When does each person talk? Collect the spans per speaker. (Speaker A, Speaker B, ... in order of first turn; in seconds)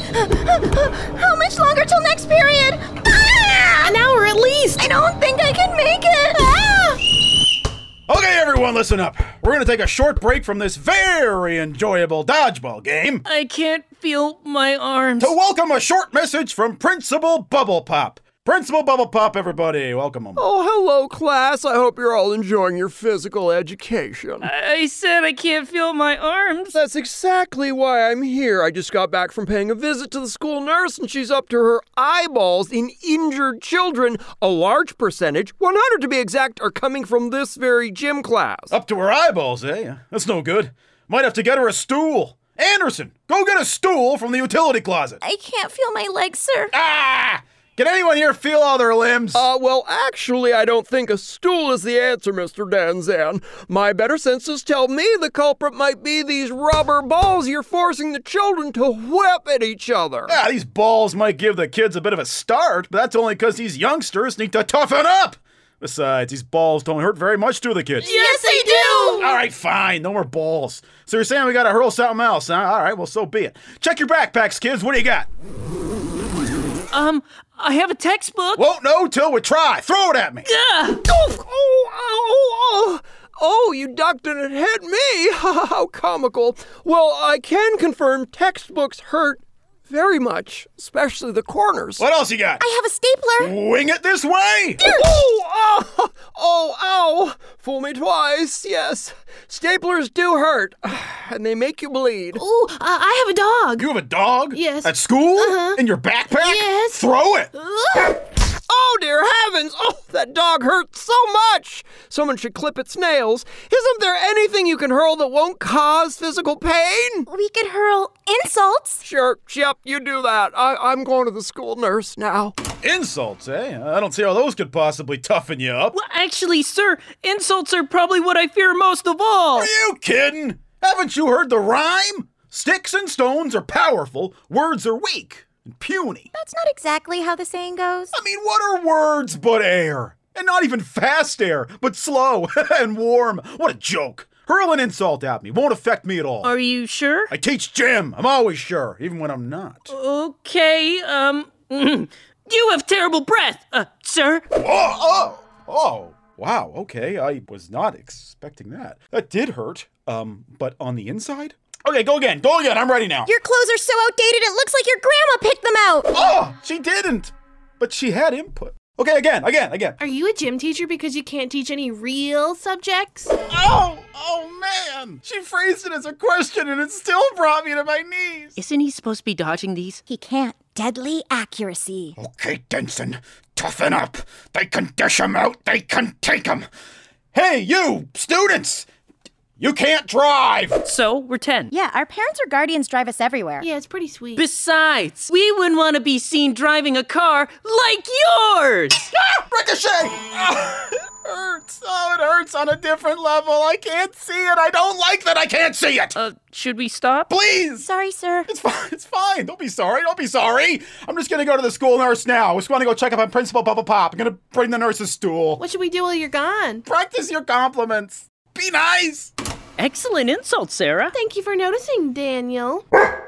Speaker A: 0.1-3.9, 4.8-7.0, 45.2-46.7, 68.0-69.3, 92.6-93.5, 94.8-95.1, 117.3-119.0, 136.3-138.0, 163.2-166.1, 180.1-182.1, 191.7-193.6, 207.8-208.5
Speaker B: 3.8-4.8, 68.0-69.4, 102.3-103.8, 104.5-105.8, 106.3-108.2, 170.0-173.3, 193.6-194.4, 215.6-216.8, 221.1-222.8
Speaker C: 8.1-13.2, 15.2-20.4, 38.7-45.2, 46.7-49.4, 60.3-68.2, 69.1-75.3, 78.5-80.5, 92.0-92.6, 93.4-94.8, 103.8-107.5, 122.8-125.9, 129.5-136.3, 138.1-146.5, 147.3-149.9, 154.5-163.3, 166.1-170.0, 173.5-178.5, 182.2-186.7, 187.3-188.9, 189.6-190.8, 199.1-206.2, 207.3-207.9, 208.5-215.6, 216.8-219.3
Speaker D: 13.2-15.3, 24.4-26.8, 76.9-78.6, 80.5-81.0, 125.9-129.7, 146.4-147.3, 149.9-154.4, 178.6-180.0, 190.8-191.7, 194.3-199.1, 206.2-207.3, 219.8-221.2
Speaker E: 20.4-24.5, 26.7-38.8, 49.3-60.4, 81.0-92.0, 94.8-102.4, 108.7-117.3, 119.0-122.5